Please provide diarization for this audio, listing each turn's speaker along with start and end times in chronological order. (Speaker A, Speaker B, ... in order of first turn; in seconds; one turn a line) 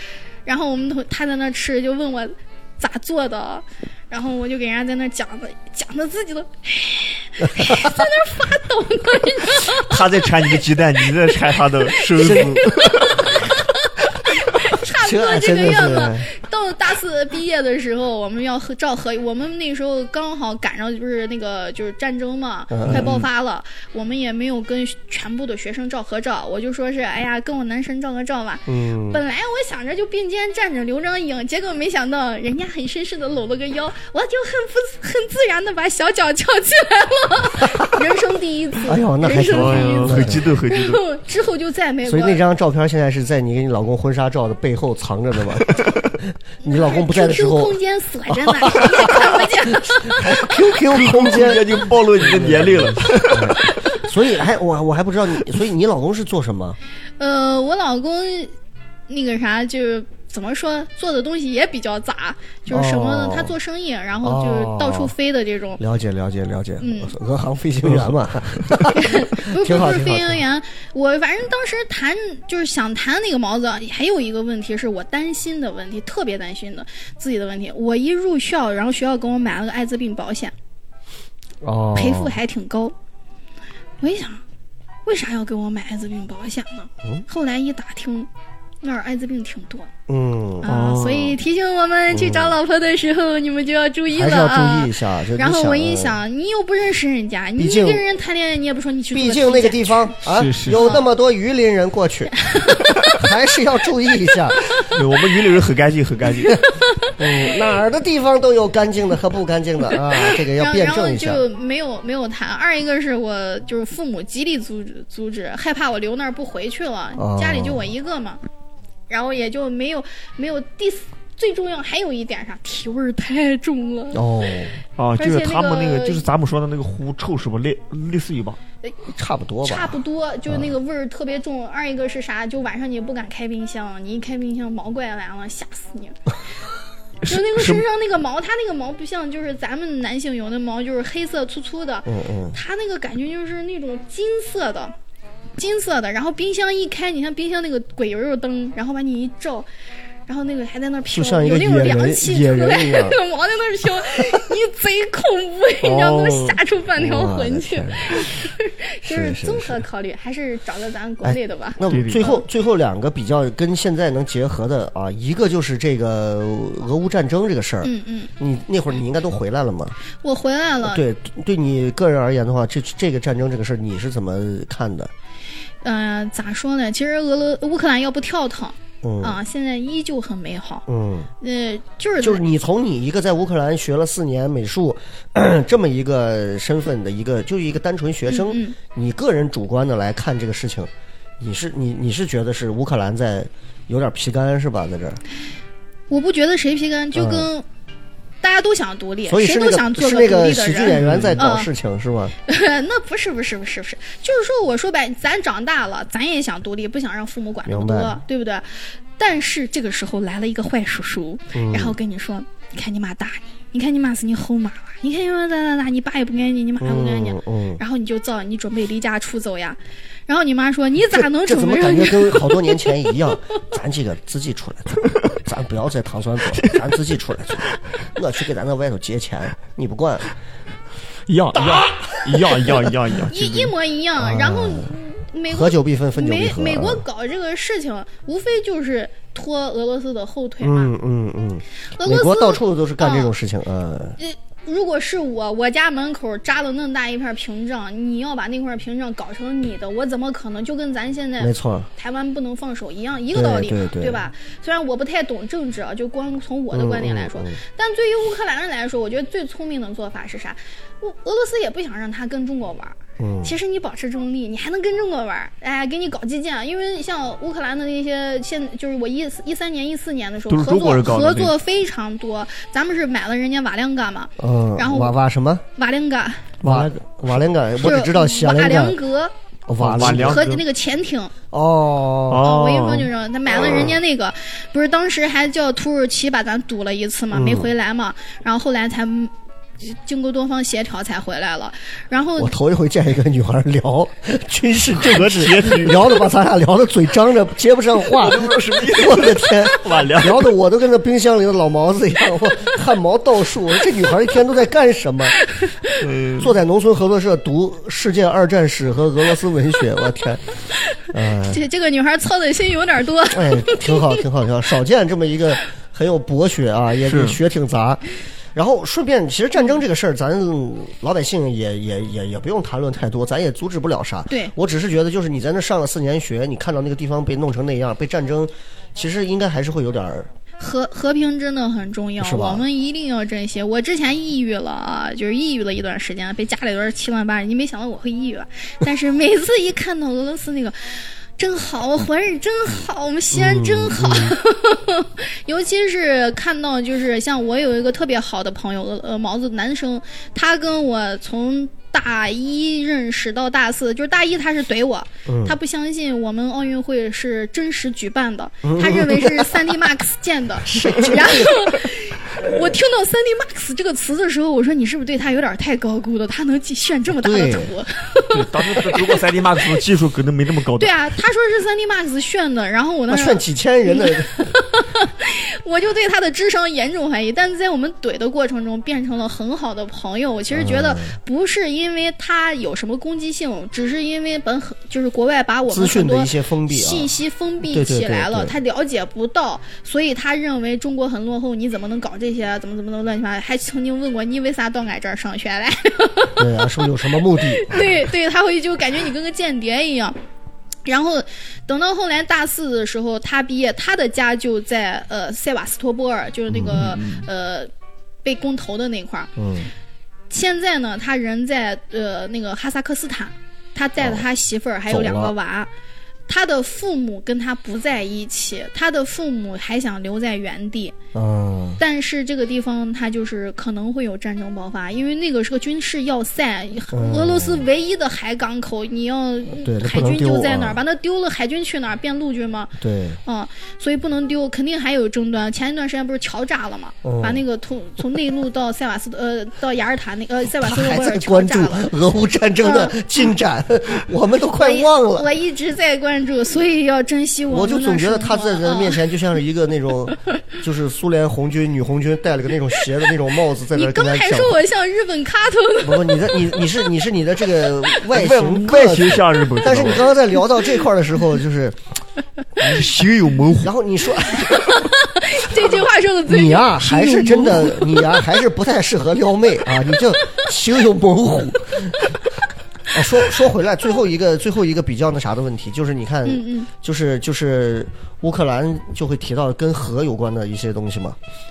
Speaker A: 0.5-10.2
Speaker B: 7.6-7.9
Speaker C: 9.7-13.3
Speaker A: 11.9-42.4
Speaker B: 12.2-12.7
Speaker B: 14.9-16.3
Speaker B: 22.7-23.1
Speaker C: 22.9-23.2
Speaker B: 28.7-29.2
Speaker B: 38.9-40.5
Speaker C: 39.4-41.0
Speaker B: 42.0-47.8
Speaker A: 46.6-50.5
Speaker B: 48.3-56.8
Speaker C: 50.9-53.6
Speaker A: 57.2-58.5
Speaker A: 59.1-65.8
Speaker B: 62.7-63.5
Speaker B: 64.2-65.1
Speaker B: 65.8-70.4
Speaker A: 66.8-67.2
Speaker A: 68.9-80.5
Speaker B: 81.6-82.4
Speaker A: 82.0-82.9
Speaker A: 84.0-84.4
Speaker A: 85.1-88.3
Speaker A: 88.8-89.9
Speaker B: 90.1-90.7
Speaker A: 90.6-100.2
Speaker C: 90.7-91.4
Speaker B: 92.1-92.5
Speaker B: 94.1-96.2
Speaker B: 97.6-98.0
Speaker B: 99.1-102.5
Speaker C: 100.3-100.9
Speaker A: 100.7-101.1
Speaker A: 102.4-103.2
Speaker B: 103.1-104.6
Speaker C: 104.8-106.6
Speaker A: 106.8-107.1
Speaker B: 107.2-111.4
Speaker A: 110.3-118.4
Speaker B: 117.2-117.8
Speaker A: 119.1-124.3
Speaker B: 124.1-124.8
Speaker C: 125.0-128.6
Speaker A: 125.2-126.2
Speaker B: 129.1-130.0
Speaker A: 129.7-136.2
Speaker B: 130.5-130.7
Speaker C: 137.2-137.8
Speaker A: 137.3-144.9
Speaker B: 142.1-142.6
Speaker A: 145.6-149.7
Speaker A: 150.3-162.4
Speaker B: 151.1-153.2
Speaker C: 155.8-156.6
Speaker B: 157.0-158.4
Speaker B: 159.1-159.8
Speaker B: 161.2-170.0
Speaker C: 161.9-162.3
Speaker A: 167.8-168.3
Speaker A: 170.2-171.0
Speaker B: 170.8-175.1
Speaker A: 175.8-180.9
Speaker B: 179.0-179.4
Speaker B: 180.9-181.3
Speaker A: 181.4-182.4
Speaker B: 182.2-195.2
Speaker A: 188.3-188.8
Speaker A: 196.1-197.7
Speaker B: 197.1-197.5
Speaker A: 198.4-201.7
Speaker B: 199.3-202.3
Speaker C: 200.9-201.4
Speaker A: 202.5-223.1
Speaker B: 207.7-208.2
Speaker B: 211.5-212.0
Speaker B: 216.8-217.8
Speaker B: 221.2-230.3
Speaker C: 226.6-226.8
Speaker C: 231.3-233.7
Speaker B: 231.6-233.0
Speaker A: 233.3-240.9
Speaker B: 234.2-234.9
Speaker B: 235.5-237.0
Speaker B: 240.6-244.2
Speaker A: 242.0-243.3
Speaker A: 244.2-275.1
Speaker B: 251.4-251.9
Speaker B: 253.3-254.2
Speaker B: 256.7-257.6
Speaker B: 263.2-263.6
Speaker C: 270.5-271.6
Speaker B: 274.4-275.6
Speaker A: 275.8-276.5
Speaker C: 276.6-276.9
Speaker B: 276.6-279.0
Speaker A: 277.8-279.3
Speaker B: 279.7-280.5
Speaker C: 279.8-280.6
Speaker A: 280.0-281.3
Speaker B: 281.5-282.4
Speaker C: 282.3-283.1
Speaker A: 282.4-292.5
Speaker B: 283.5-284.0
Speaker B: 287.3-287.7
Speaker B: 292.4-305.4
Speaker C: 295.0-296.2
Speaker C: 298.1-300.5
Speaker A: 305.5-305.9
Speaker C: 306.0-306.6
Speaker B: 306.4-310.4
Speaker A: 310.9-314.2
Speaker B: 311.1-311.6
Speaker B: 313.3-318.0
Speaker C: 317.1-317.4
Speaker B: 318.5-330.3
Speaker A: 330.6-369.2
Speaker B: 332.2-332.7
Speaker B: 343.3-344.4
Speaker B: 355.3-355.6
Speaker B: 358.6-359.8
Speaker B: 360.7-361.7
Speaker B: 367.2-367.7
Speaker C: 368.3-370.9
Speaker A: 370.8-400.2
Speaker B: 373.1-374.5
Speaker B: 380.5-381.1
Speaker B: 385.7-387.1
Speaker B: 387.7-388.6
Speaker B: 396.4-397.9
Speaker A: 400.9-407.7
Speaker B: 406.5-406.8
Speaker C: 406.7-407.2
Speaker A: 408.2-409.3
Speaker B: 409.4-409.7
Speaker A: 410.3-415.7
Speaker B: 414.0-414.2
Speaker B: 414.9-415.3
Speaker A: 416.3-420.9
Speaker B: 421.1-421.8
Speaker A: 421.8-432.7
Speaker B: 426.9-427.7
Speaker B: 429.6-430.8
Speaker B: 432.8-433.2
Speaker A: 433.2-441.9
Speaker B: 437.0-437.4
Speaker B: 440.6-445.3
Speaker A: 442.6-443.0
Speaker A: 444.6-449.0
Speaker B: 447.5-454.6
Speaker A: 453.7-456.6
Speaker B: 455.8-461.8
Speaker C: 458.1-460.1
Speaker C: 462.6-463.7
Speaker B: 463.6-464.7
Speaker A: 464.3-468.3
Speaker B: 466.3-472.0
Speaker B: 472.9-481.2
Speaker A: 476.3-476.7